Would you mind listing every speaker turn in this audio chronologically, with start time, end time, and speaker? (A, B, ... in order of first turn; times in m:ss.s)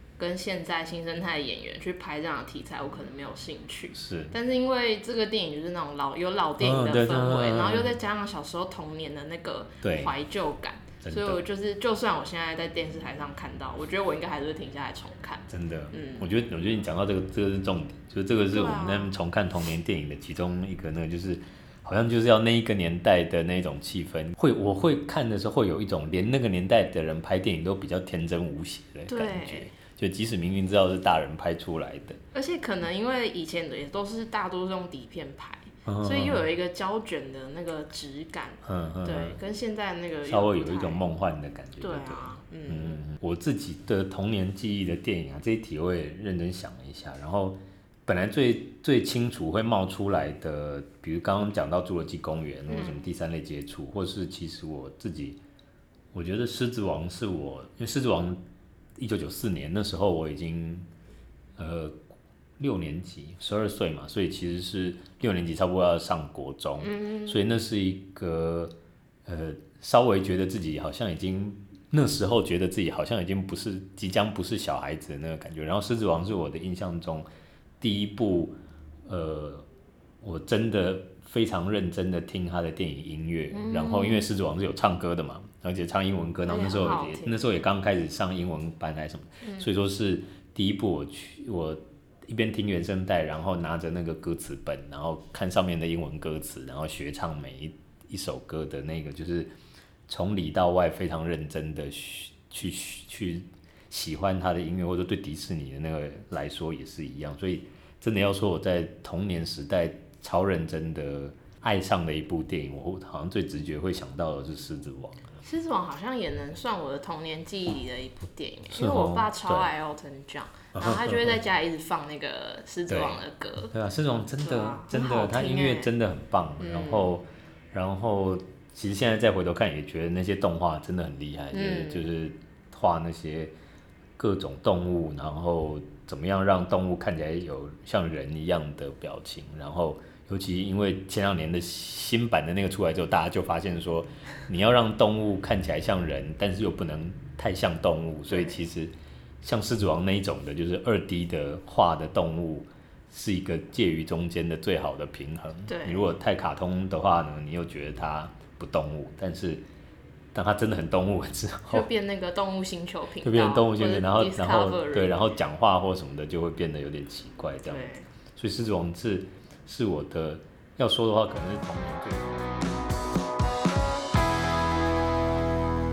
0:00.2-0:16.3 A
0:03.9-0:04.3 B
0:06.6-0:07.9 B
0:09.8-0:10.1 B
0:11.0-0:11.4 B
0:15.5-0:32.2 B
0:18.5-0:19.2 A
0:29.1-0:29.7 A
0:32.3-0:41.0 A
0:35.8-0:36.4 B
0:38.6-0:39.4 B
0:40.2-0:55.4 B
0:41.8-0:43.0 A
0:52.6-0:53.0 A
0:56.1-0:58.4 B
0:59.0-1:00.9 B
1:01.6-1:02.0 B
1:02.6-1:08.7 B
1:06.8-1:07.4 A
1:09.2-1:17.3 B
1:17.8-1:19.7 B
1:20.2-1:39.5 B
1:23.5-1:24.3 A
1:26.4-1:27.5 A
1:40.1-1:55.2 B
1:55.4-2:03.7 A
1:58.7-1:59.7 B
2:00.7-2:01.4 B
2:02.9-2:03.2 B
2:03.7-2:13.5 B
2:04.4-2:05.9 A
2:06.6-2:07.1 A
2:11.5-2:12.1 A
2:14.2-2:39.6 B
2:28.3-2:28.6 A
2:35.6-2:36.1 A
2:40.3-2:41.8 B
2:41.7-2:45.2 A
2:43.2-2:52.8 B
2:47.6-2:48.1 A